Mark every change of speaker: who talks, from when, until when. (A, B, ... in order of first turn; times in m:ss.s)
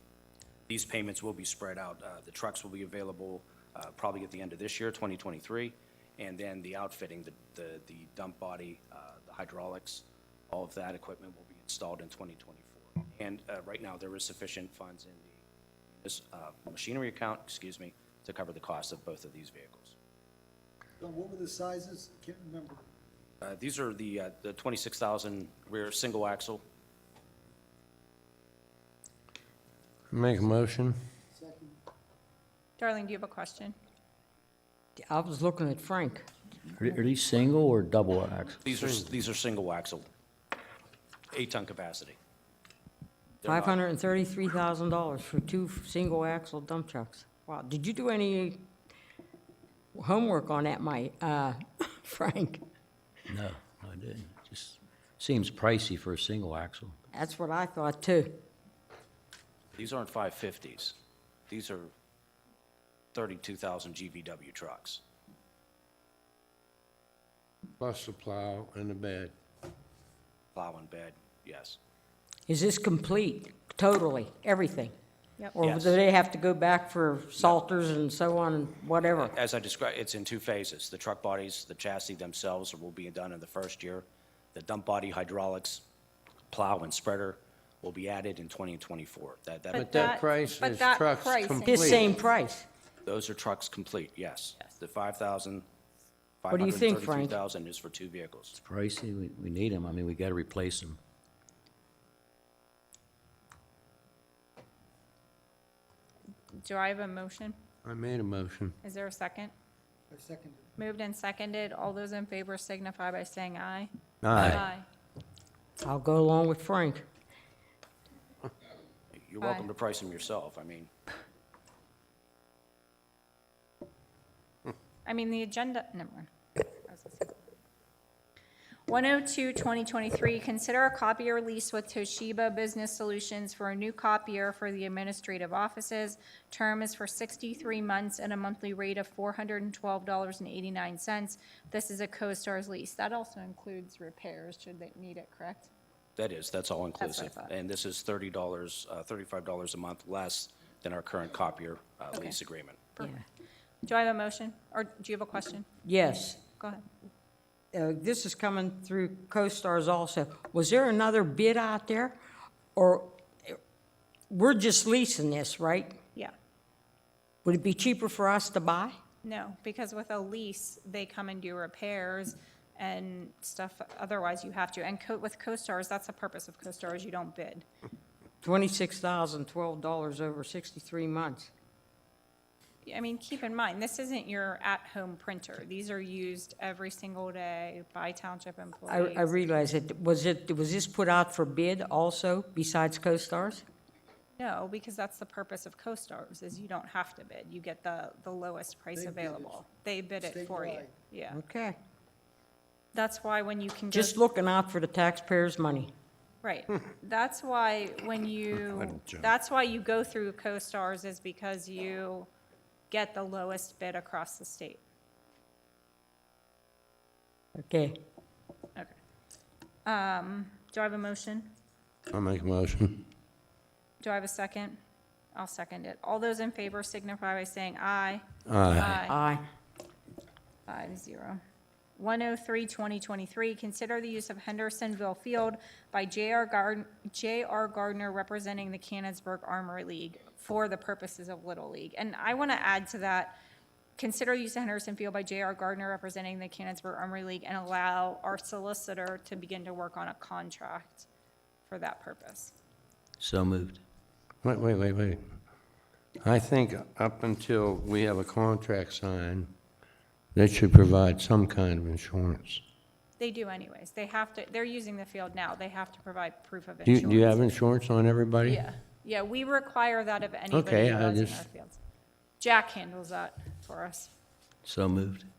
0:00.7-0:15.4 A
0:16.0-0:20.0 A
0:21.0-0:22.8 B
0:23.4-0:26.6 A
0:30.1-0:31.0 C
0:31.4-0:31.7 B
0:32.8-0:33.8 D
0:35.0-0:36.3 E
0:36.8-0:38.6 F
0:38.6-0:40.1 A
0:41.3-0:42.2 A
0:43.4-0:43.8 A
0:43.4-0:48.7 E
0:49.9-0:52.6 E
0:53.3-0:57.0 F
0:57.1-0:58.4 E
0:59.8-1:01.0 A
1:01.5-1:01.9 A
1:03.1-1:05.0 A
1:07.8-1:09.3 C
1:10.6-1:11.8 A
1:12.5-1:14.9 E
1:15.6-1:19.3 E
1:15.6-1:16.0 A
1:19.1-1:25.8 A
1:26.5-1:30.2 A
1:29.7-1:32.1 D
1:29.7-1:32.1 C
1:31.7-1:32.7 E
1:33.0-1:35.7 A
1:36.4-1:38.5 A
1:36.5-1:37.4 E
1:38.5-1:41.0 F
1:46.6-1:47.6 D
1:47.8-1:48.8 C
1:48.8-1:49.5 D
1:50.1-1:50.6 B
1:50.8-1:54.9 D
1:54.2-1:54.6 C
1:54.4-1:54.6 E
1:55.8-1:57.0 E
1:59.1-2:00.9 A
1:59.4-1:59.7 D
2:05.1-2:06.3 D
2:06.9-2:07.4 D
2:08.9-2:25.7 D
2:26.2-2:32.8 A
2:27.0-2:27.5 D
2:33.0-2:33.2 E
2:33.8-2:35.7 D
2:35.8-2:36.5 E
2:37.7-2:42.2 E
2:42.8-2:43.6 E
2:44.3-2:46.0 E
2:47.4-2:49.0 E
2:49.2-2:57.7 D
2:58.4-3:01.5 E
3:02.8-3:09.4 D
3:08.9-3:13.6 E
3:14.4-3:21.4 D
3:19.0-3:19.4 B
3:20.2-3:20.9 B
3:21.3-3:21.8 E
3:22.9-3:24.2 D
3:23.9-3:25.9 E
3:26.4-3:32.3 D
3:28.6-3:29.3 C
3:32.9-3:34.8 D
3:37.6-3:38.0 E
3:39.9-3:41.5 D
3:42.1-3:43.1 C
3:44.0-3:44.8 D
3:45.4-3:49.2 D
3:48.5-3:49.0 C
3:49.0-3:49.4 E
3:50.7-3:51.4 D
3:52.0-4:03.4 D
4:04.0-4:11.1 D
4:11.7-4:12.5 D
4:13.2-4:13.8 F
4:14.4-4:15.2 C
4:16.2-4:19.5 C
4:20.3-4:22.6 C
4:23.2-4:27.6 D
4:26.8-4:28.6 C
4:28.4-4:31.8 D
4:30.5-4:31.4 C
4:32.4-4:34.1 D
4:34.6-4:35.3 F